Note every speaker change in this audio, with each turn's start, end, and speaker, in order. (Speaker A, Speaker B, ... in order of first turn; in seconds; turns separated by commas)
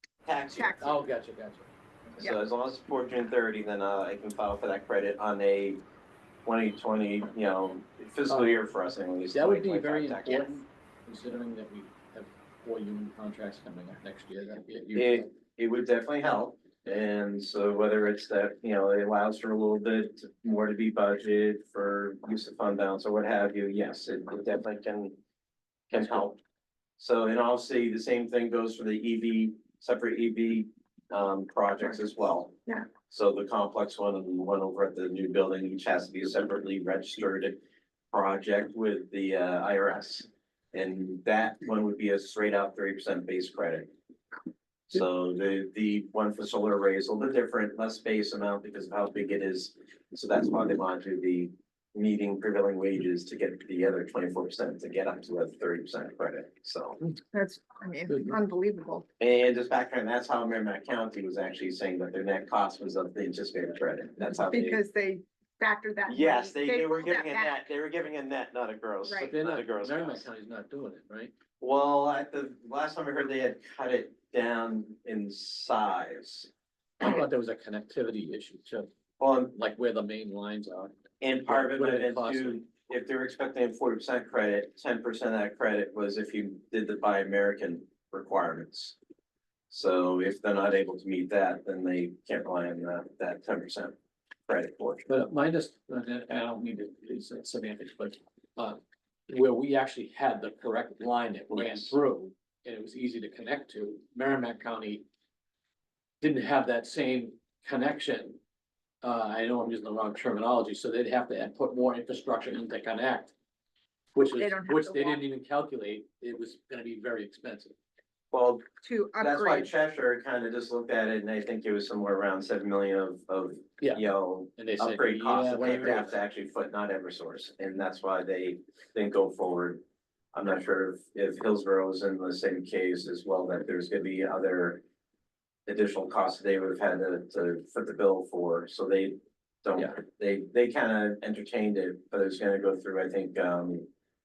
Speaker A: 0.2-0.9, Speaker B: 0.5-1.0, Speaker C: 0.8-1.7, Speaker A: 2.1-5.8, Speaker A: 6.4-10.6, Speaker C: 8.3-8.6, Speaker C: 9.3-15.3, Speaker A: 14.9-25.1, Speaker A: 25.9-26.4, Speaker A: 27.0-37.6, Speaker A: 38.1-43.9, Speaker A: 44.9-57.0, Speaker B: 57.3-59.0, Speaker C: 58.1-58.4, Speaker A: 59.2-64.8, Speaker B: 64.3-67.7, Speaker A: 66.1-70.3, Speaker B: 69.0-69.3, Speaker C: 69.3-71.3, Speaker A: 71.6-76.5, Speaker C: 77.0-78.9, Speaker A: 79.2-79.5, Speaker C: 79.5-80.9, Speaker A: 81.2-89.0, Speaker C: 81.5-82.6, Speaker A: 89.7-94.0, Speaker A: 94.5-95.1, Speaker C: 95.1-105.0, Speaker A: 101.5-101.9, Speaker C: 106.2-108.4, Speaker C: 109.0-113.3, Speaker C: 114.1-117.7, Speaker B: 114.3-115.2, Speaker A: 118.3-118.6, Speaker B: 118.8-119.7, Speaker A: 119.2-129.8, Speaker C: 124.6-126.1, Speaker A: 130.3-134.8, Speaker A: 135.7-143.9